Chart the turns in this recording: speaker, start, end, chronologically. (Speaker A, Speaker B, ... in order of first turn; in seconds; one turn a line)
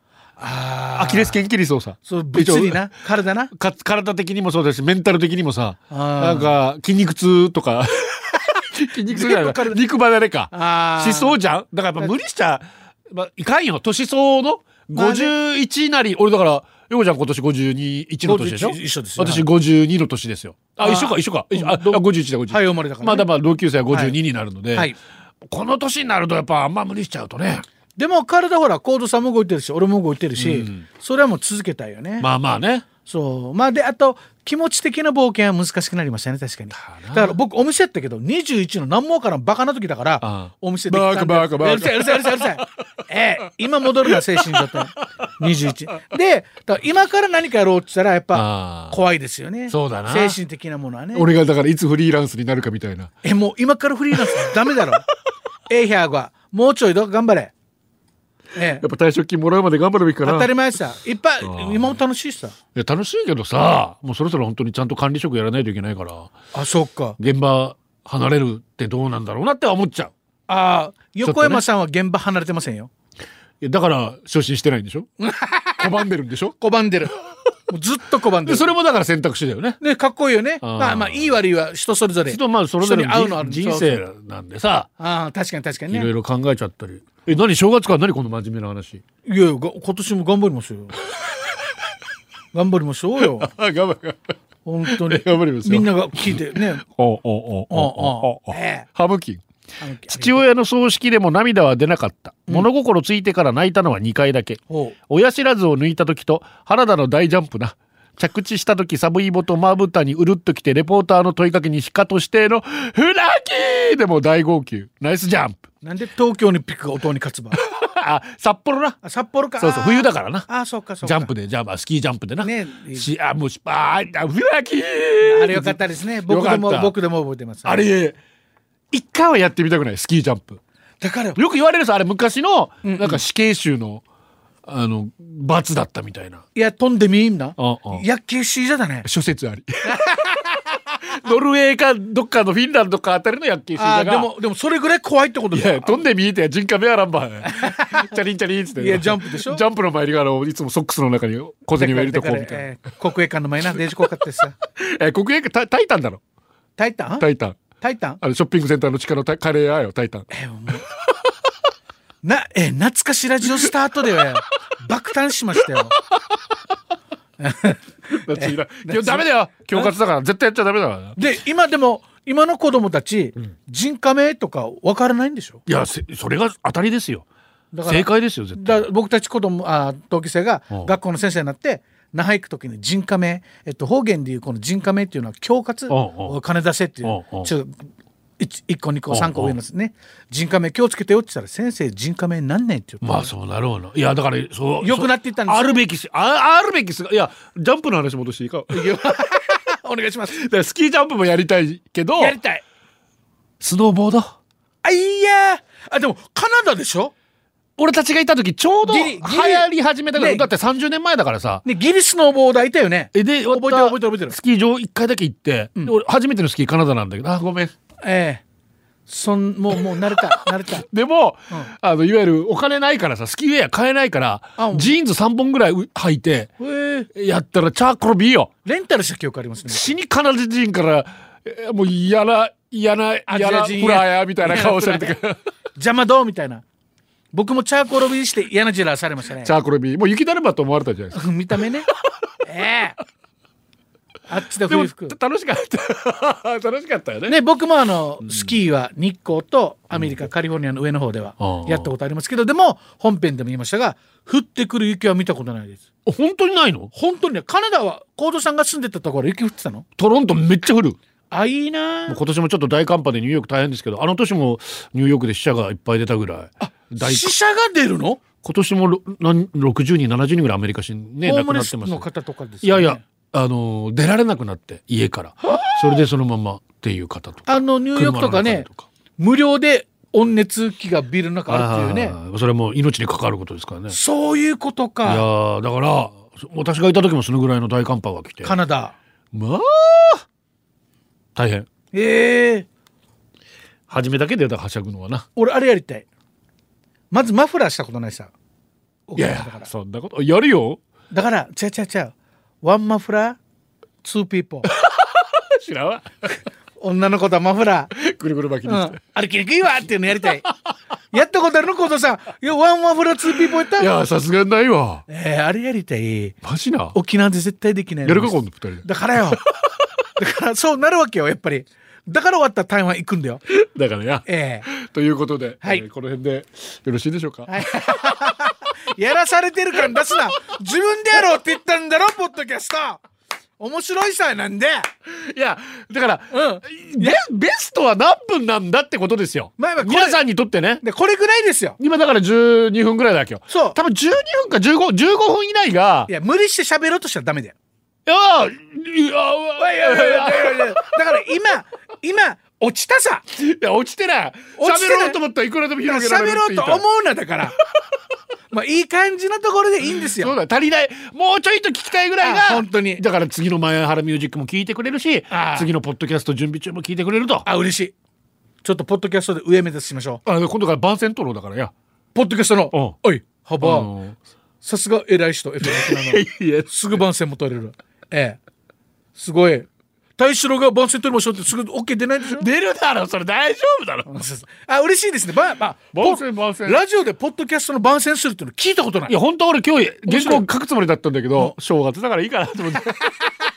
Speaker A: 0.4-1.4
Speaker B: 1.0-2.9
Speaker A: 2.1-3.5
Speaker B: 3.5-24.9
Speaker A: 5.9-6.6
Speaker A: 9.1-9.8
Speaker A: 10.5-11.4
Speaker A: 14.9-15.3
Speaker A: 18.2-19.5
Speaker A: 20.8-23.3
Speaker A: 23.9-24.2
Speaker B: 25.5-27.6
Speaker A: 28.0-32.3
Speaker B: 30.4-30.9
Speaker B: 32.2-32.9
Speaker A: 33.1-51.3
Speaker B: 36.7-37.3
Speaker B: 40.2-42.7
Speaker B: 44.1-45.3
Speaker B: 48.3-49.0
Speaker B: 49.7-50.4
Speaker B: 51.1-53.1
Speaker A: 53.2-55.0
Speaker B: 54.2-54.5
Speaker A: 55.7-57.5
Speaker A: 58.5-58.8
Speaker B: 58.8-60.5
Speaker A: 60.2-62.6
Speaker B: 61.4-62.0
Speaker B: 62.8-66.3
Speaker A: 66.5-67.2
Speaker B: 67.2-70.1
Speaker A: 70.5-72.9
Speaker B: 71.2-71.6
Speaker B: 73.6-75.1
Speaker A: 75.2-76.1
Speaker B: 75.8-76.6
Speaker A: 76.6-77.1
Speaker A: 77.7-78.7
Speaker B: 78.5-79.8
Speaker A: 79.8-84.0
Speaker B: 80.6-81.3
Speaker B: 82.3-84.9
Speaker A: 85.0-86.1
Speaker B: 85.9-89.0
Speaker A: 89.2-91.0
Speaker A: 92.5-93.5
Speaker B: 93.2-94.2
Speaker A: 94.7-96.8
Speaker B: 94.9-99.5
Speaker A: 97.7-98.9
Speaker A: 99.8-100.4
Speaker B: 100.1-115.6
Speaker A: 104.7-105.0
Speaker A: 115.8-117.6
Speaker B: 117.5-119.0
Speaker A: 119.0-121.3
Speaker B: 119.6-120.5
Speaker B: 121.0-126.9
Speaker A: 122.4-123.1
Speaker A: 125.2-127.9
Speaker B: 127.7-128.2
Speaker B: 128.9-130.6
Speaker A: 131.0-131.4
Speaker B: 131.4-134.0
Speaker A: 132.8-133.2
Speaker B: 134.7-136.4
Speaker A: 136.6-139.1
Speaker B: 137.6-138.0
Speaker B: 139.1-144.3
Speaker A: 139.8-140.3
Speaker A: 143.8-146.1
Speaker B: 145.5-152.7
Speaker A: 147.5-148.1
Speaker A: 148.8-149.6
Speaker A: 151.8-154.5
Speaker B: 154.7-156.2
Speaker A: 156.8-157.3
Speaker B: 157.2-157.6
Speaker A: 157.8-158.2
Speaker B: 158.2-160.3
Speaker A: 160.3-160.9
Speaker A: 162.2-166.0
Speaker A: 167.4-169.9
Speaker B: 168.1-171.2
Speaker A: 171.2-175.6
Speaker B: 175.7-177.3
Speaker A: 177.7-187.8
Speaker B: 177.8-178.9
Speaker B: 185.9-186.4
Speaker B: 187.1-187.5
Speaker A: 188.4-193.3
Speaker B: 189.1-189.6
Speaker B: 193.0-199.2
Speaker A: 194.8-195.8
Speaker A: 198.7-200.3
Speaker B: 200.3-202.4
Speaker A: 202.2-202.6
Speaker B: 203.6-204.4
Speaker A: 204.8-207.1
Speaker B: 207.8-211.6
Speaker A: 208.8-210.5
Speaker A: 211.7-214.4
Speaker B: 213.1-217.7
Speaker A: 218.0-218.4
Speaker A: 219.1-220.8
Speaker B: 220.1-226.5
Speaker A: 224.6-225.0
Speaker A: 226.6-227.1
Speaker B: 227.1-228.5
Speaker A: 228.7-229.9
Speaker B: 229.7-235.4
Speaker A: 233.3-235.2
Speaker A: 235.8-236.6
Speaker A: 237.3-239.5
Speaker B: 239.4-241.2
Speaker A: 241.1-241.9
Speaker A: 242.5-242.9
Speaker A: 244.3-245.2
Speaker B: 244.7-247.4
Speaker A: 247.3-255.8
Speaker B: 248.2-248.5
Speaker B: 249.9-250.2
Speaker B: 251.4-251.9
Speaker B: 256.1-256.9
Speaker A: 256.9-259.9
Speaker B: 260.0-261.0
Speaker A: 261.3-262.2
Speaker B: 262.1-267.3
Speaker A: 266.6-268.2
Speaker B: 268.4-272.1
Speaker A: 271.2-273.0
Speaker B: 272.6-278.9
Speaker A: 277.5-282.2
Speaker B: 281.5-284.0
Speaker A: 283.9-285.3
Speaker B: 285.1-288.6
Speaker A: 288.4-288.9
Speaker B: 289.3-290.2
Speaker B: 291.4-291.7
Speaker A: 291.9-292.7
Speaker B: 293.9-295.3
Speaker A: 295.4-296.1
Speaker A: 297.1-298.3
Speaker A: 299.1-299.7
Speaker B: 299.2-300.8
Speaker A: 301.1-303.4
Speaker A: 304.0-304.7
Speaker B: 304.7-306.4
Speaker A: 306.8-307.9
Speaker B: 307.9-309.0
Speaker A: 308.6-310.4
Speaker B: 310.1-310.5
Speaker A: 311.1-313.9
Speaker B: 313.4-315.1
Speaker A: 315.1-316.4
Speaker B: 316.4-317.0
Speaker A: 316.9-319.4
Speaker B: 318.1-318.9
Speaker A: 320.2-323.4
Speaker B: 323.5-328.3
Speaker A: 324.3-324.7
Speaker A: 327.5-333.0
Speaker A: 333.6-334.9
Speaker B: 335.1-340.8
Speaker A: 336.3-337.2
Speaker A: 339.6-340.2
Speaker A: 340.8-341.8
Speaker B: 341.8-346.1
Speaker A: 343.5-343.8
Speaker A: 346.1-347.6
Speaker B: 348.1-350.9
Speaker A: 349.6-353.2
Speaker B: 353.3-356.8
Speaker A: 354.6-355.2
Speaker A: 355.8-357.6
Speaker A: 358.5-360.4
Speaker B: 359.9-367.5
Speaker A: 362.2-363.0
Speaker A: 365.3-365.7
Speaker A: 367.5-367.9
Speaker A: 368.6-370.2
Speaker B: 370.2-371.7
Speaker A: 372.1-373.9
Speaker B: 373.6-374.2
Speaker A: 374.6-378.4
Speaker B: 375.6-377.0
Speaker A: 379.2-379.7
Speaker A: 380.2-382.5
Speaker B: 382.3-384.2
Speaker A: 384.1-389.1
Speaker B: 385.9-386.8
Speaker B: 389.1-393.2
Speaker A: 390.1-390.5